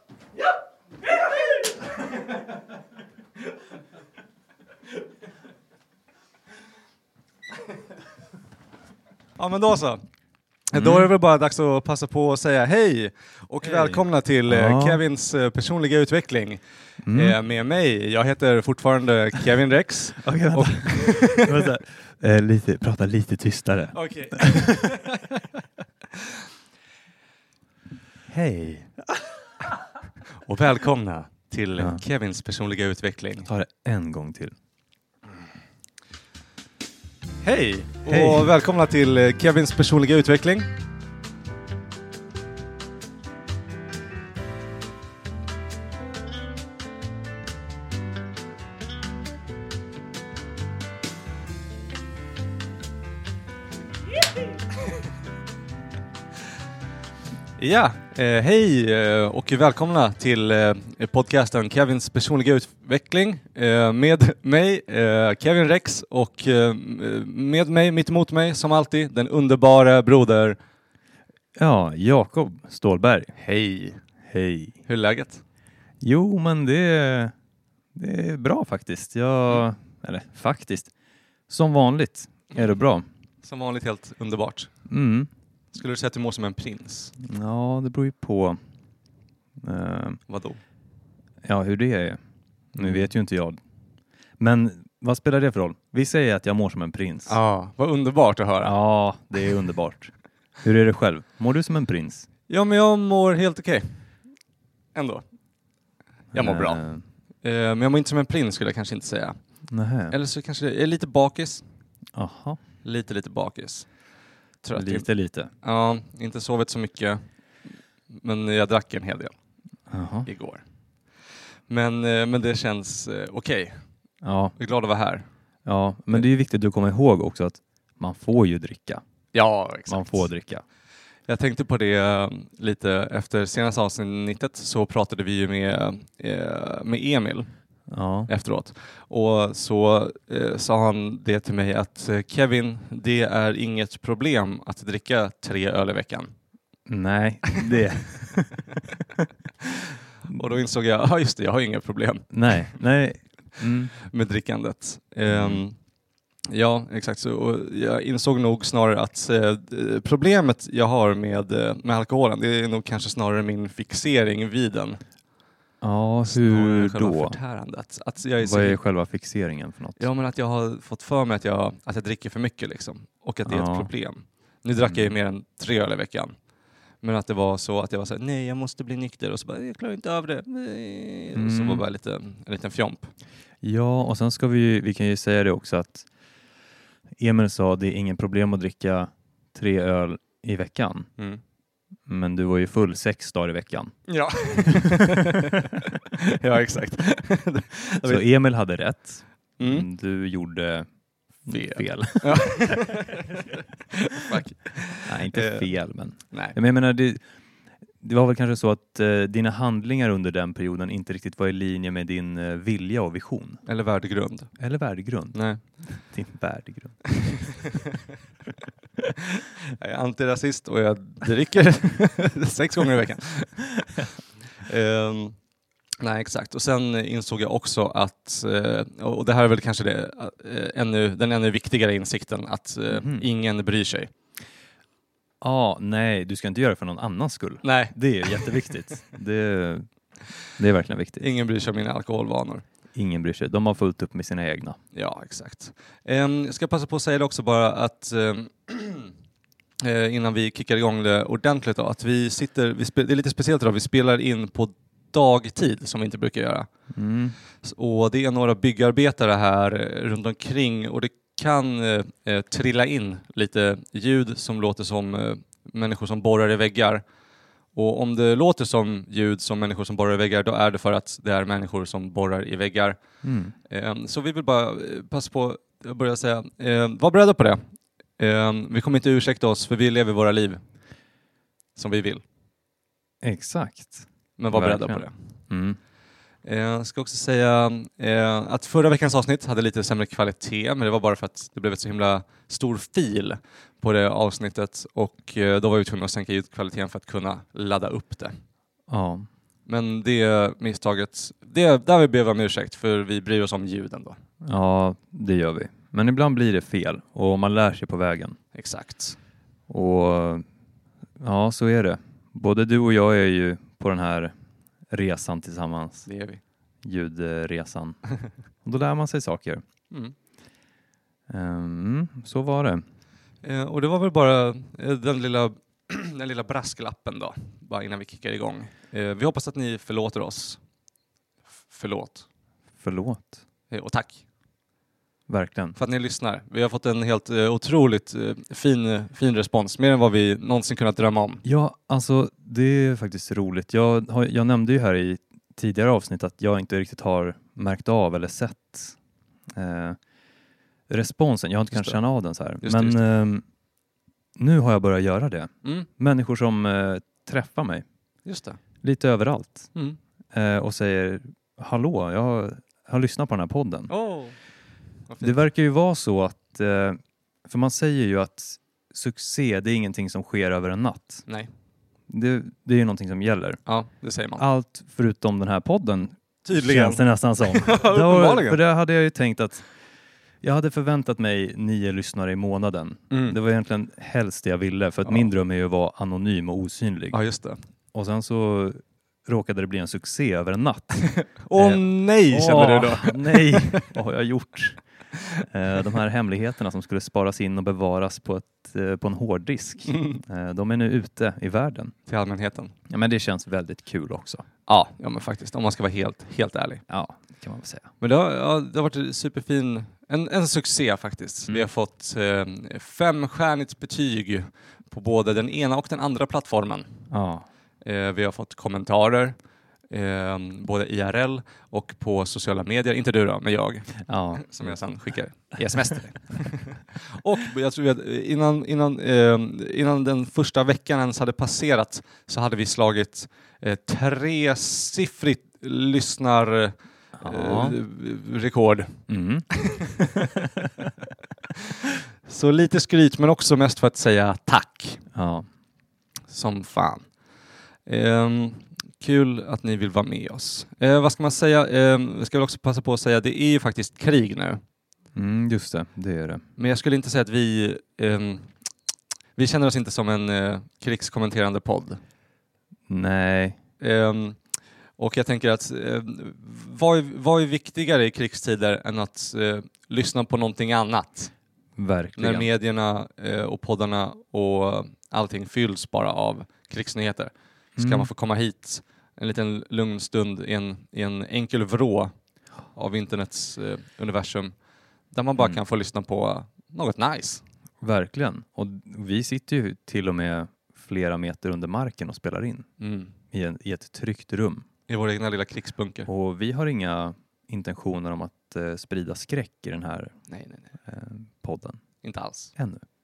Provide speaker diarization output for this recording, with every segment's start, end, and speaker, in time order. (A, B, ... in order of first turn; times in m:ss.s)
0:09.4-0:10.0 A
0:10.7-0:21.7 A
0:10.7-0:11.1 B
0:13.6-0:15.0 B
0:17.1-0:17.4 B
0:20.2-0:25.0 B
0:23.9-0:25.3 A
0:28.3-0:29.0 B
0:30.4-0:33.5 A
0:33.4-0:34.5 B
0:37.4-0:40.7 A
0:38.1-0:38.5 B
0:57.6-1:10.6 A
1:11.6-1:13.3 B
1:13.4-1:14.0 A
1:14.2-1:14.8 B
1:14.9-1:15.4 A
1:16.0-1:17.3 B
1:17.9-1:20.9 B
1:21.5-1:23.0 B
1:23.4-1:24.7 A
1:24.9-1:25.3 B
1:25.7-1:27.2 A
1:27.2-1:28.6 B
1:29.6-1:30.2 B
1:30.3-1:30.6 A
1:31.4-1:32.2 B
1:32.7-1:33.6 B
1:32.8-1:33.1 A
1:34.4-1:37.4 B
1:37.3-1:38.8 A
1:38.6-1:42.3 B
1:42.5-1:43.9 A
1:45.0-1:45.2 A
1:46.3-1:47.0 B
1:46.3-1:46.8 A
1:47.4-1:49.4 A
1:49.7-1:50.2 B
1:50.1-1:51.6 A
1:52.2-1:52.6 B
1:52.8-1:53.9 A
1:54.6-1:55.1 A
1:54.8-1:55.5 B
1:55.6-1:57.2 A
1:58.1-1:59.3 A
1:59.9-2:00.3 B
2:00.3-2:00.6 A
2:01.7-2:03.8 A
2:04.2-2:04.6 B
2:04.6-2:05.2 A
2:05.7-2:09.0 B
2:09.3-2:10.3 A
2:09.9-2:10.6 B
2:11.3-2:17.5 A
2:17.9-2:18.3 B
2:18.3-2:26.3 A
2:26.9-2:29.2 B
2:30.2-2:32.8 A
2:32.3-2:33.9 B
2:33.9-2:35.8 A
2:35.3-2:35.6 B
2:36.5-2:45.0 A
2:45.8-2:47.4 B
2:46.2-2:48.8 A
2:48.4-2:50.0 B
2:50.0-2:56.3 A
2:53.5-2:53.9 B
2:54.8-2:55.1 B
2:57.0-3:03.1 A
3:01.4-3:01.8 B
3:03.6-3:06.1 B
3:07.2-3:11.1 B
3:12.1-3:14.0 B
3:14.1-3:18.2 A
3:14.6-3:15.5 B
3:18.0-3:20.9 B
3:19.6-3:19.9 A
3:21.5-3:22.8 B
3:21.5-3:25.7 A
3:25.1-3:27.2 B
3:28.0-3:33.6 B
3:33.7-3:34.5 A
3:34.6-3:37.2 B
3:35.3-3:35.6 A
3:37.2-3:38.0 A
3:39.1-3:45.4 A
3:46.0-3:54.1 A
3:52.9-3:53.3 B
3:55.4-3:59.9 B
3:57.6-3:58.7 A
4:00.6-4:01.3 B
4:01.2-4:02.6 A
4:02.9-4:04.8 B
4:04.9-4:09.1 A
4:09.8-4:16.7 A
4:16.9-4:17.4 B
4:17.6-4:27.0 A
4:27.8-4:33.0 A
4:33.2-4:33.5 B
4:33.7-4:37.6 A
4:38.2-4:40.6 A
4:41.8-4:42.2 A
4:43.2-4:45.8 B
4:44.4-4:45.2 A
4:46.4-4:58.4 A
4:58.9-4:59.3 B
4:59.7-5:04.2 A
5:04.4-5:08.4 B
5:08.5-5:09.2 A
5:09.7-5:10.4 B
5:11.2-5:14.3 B
5:14.9-5:16.1 B
5:16.1-5:16.4 A
5:16.8-5:18.0 B
5:18.6-5:19.6 B
5:21.3-5:22.8 B
5:23.4-5:30.6 A
5:31.7-5:32.3 A
5:32.8-5:33.4 B
5:33.7-5:34.2 A
5:35.3-5:35.8 B
5:35.8-5:41.4 A
5:41.4-5:49.0 B
5:49.5-5:50.0 B
5:50.9-5:53.4 B
5:51.7-5:52.0 A
5:52.6-5:53.0 A
5:54.4-5:57.8 B
5:58.3-5:58.6 A
5:58.8-5:59.7 B
6:00.3-6:03.9 B
6:03.9-6:04.4 A
6:05.1-6:05.4 A
6:05.2-6:11.2 B
6:12.1-6:13.6 B
6:13.7-6:14.4 A
6:14.4-6:19.7 B
6:16.4-6:18.6 A
6:20.4-6:27.2 B
6:23.1-6:23.4 A
6:25.0-6:25.3 A
6:27.1-6:27.6 A
6:27.9-6:34.8 B
6:31.2-6:33.9 A
6:35.4-6:41.9 B
6:39.9-6:40.2 A
6:42.1-6:42.7 A
6:42.9-6:44.5 B
6:44.7-6:46.8 A
6:46.9-6:47.9 B
6:48.0-6:57.1 A
6:57.1-6:57.4 B
6:57.8-6:59.4 A
6:59.9-7:20.5 A
7:04.0-7:04.8 B
7:05.6-7:06.1 B
7:17.2-7:17.8 B
7:19.1-7:19.5 B
7:22.3-7:25.0 A
7:25.1-7:25.5 B
7:26.3-7:27.1 A
7:27.9-7:34.6 A
7:35.2-7:36.4 B
7:36.6-7:38.5 A
7:39.4-7:42.0 A
7:42.9-7:43.6 B
7:43.8-7:44.4 A
7:45.0-7:51.3 A
7:51.8-7:52.5 B
7:52.2-8:02.1 A
7:57.8-7:58.1 B
8:02.7-8:04.5 A
8:05.1-8:07.4 A
8:07.8-8:12.7 B
8:12.8-8:13.1 A
8:13.3-8:14.6 B
8:14.9-8:16.1 A
8:16.1-8:20.2 B
8:20.3-8:20.7 A
8:20.8-8:21.8 B
8:22.0-8:22.5 A
8:22.6-8:22.8 B